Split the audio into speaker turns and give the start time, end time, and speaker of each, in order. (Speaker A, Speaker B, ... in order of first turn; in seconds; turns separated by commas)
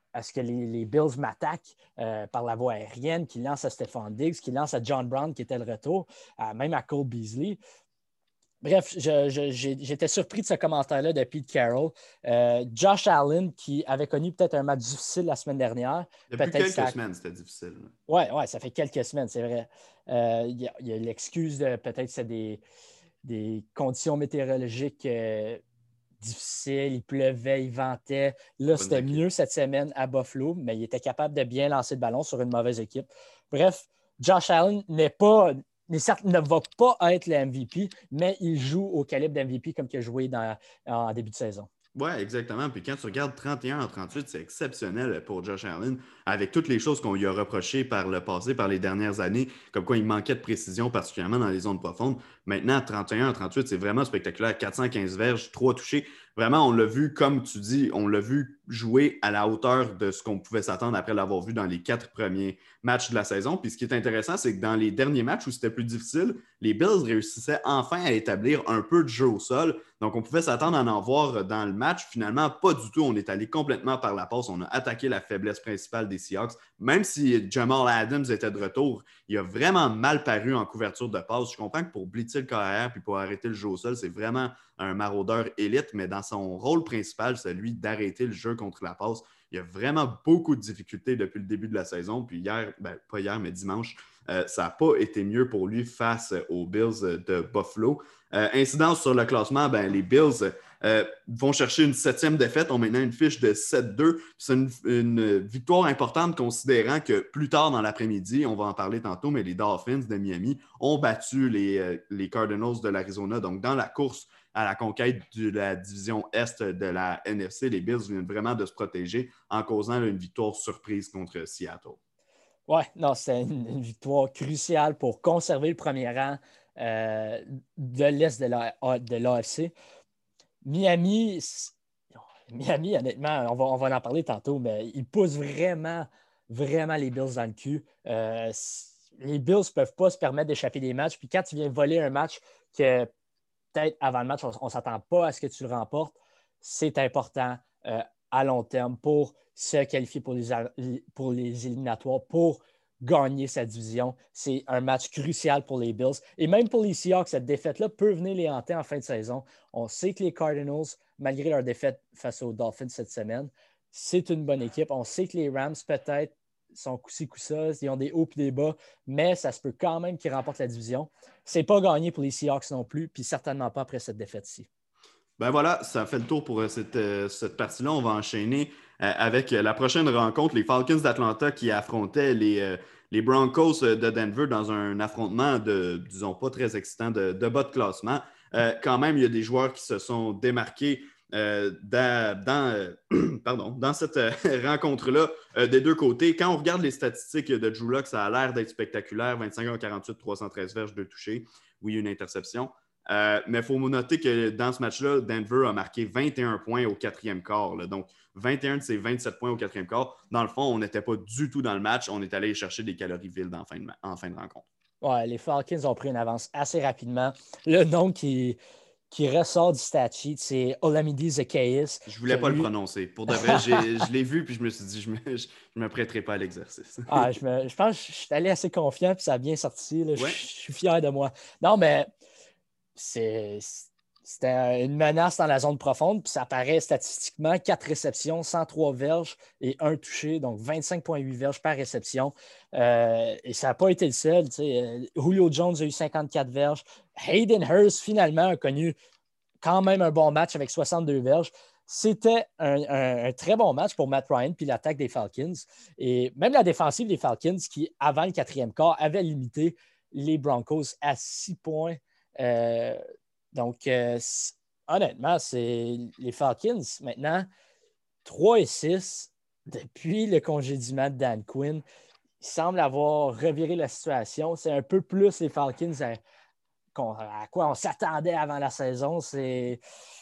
Speaker A: 0.1-7.6, Speaker A: 8.6-16.9, Speaker B: 16.3-17.9, Speaker A: 18.1-22.6, Speaker A: 23.2-25.6, Speaker A: 26.2-41.7, Speaker B: 28.8-29.2, Speaker B: 42.0-122.0, Speaker A: 122.7-129.7, Speaker A: 130.6-143.1, Speaker A: 143.7-174.7, Speaker B: 175.4-214.7, Speaker A: 215.0-218.6, Speaker A: 219.1-222.7, Speaker B: 222.1-227.3, Speaker A: 223.3-223.8, Speaker A: 227.1-232.1, Speaker B: 230.2-230.4, Speaker A: 233.0-248.9, Speaker A: 249.6-263.0, Speaker A: 263.5-267.5, Speaker A: 268.2-271.8, Speaker A: 272.4-276.2, Speaker A: 276.9-279.8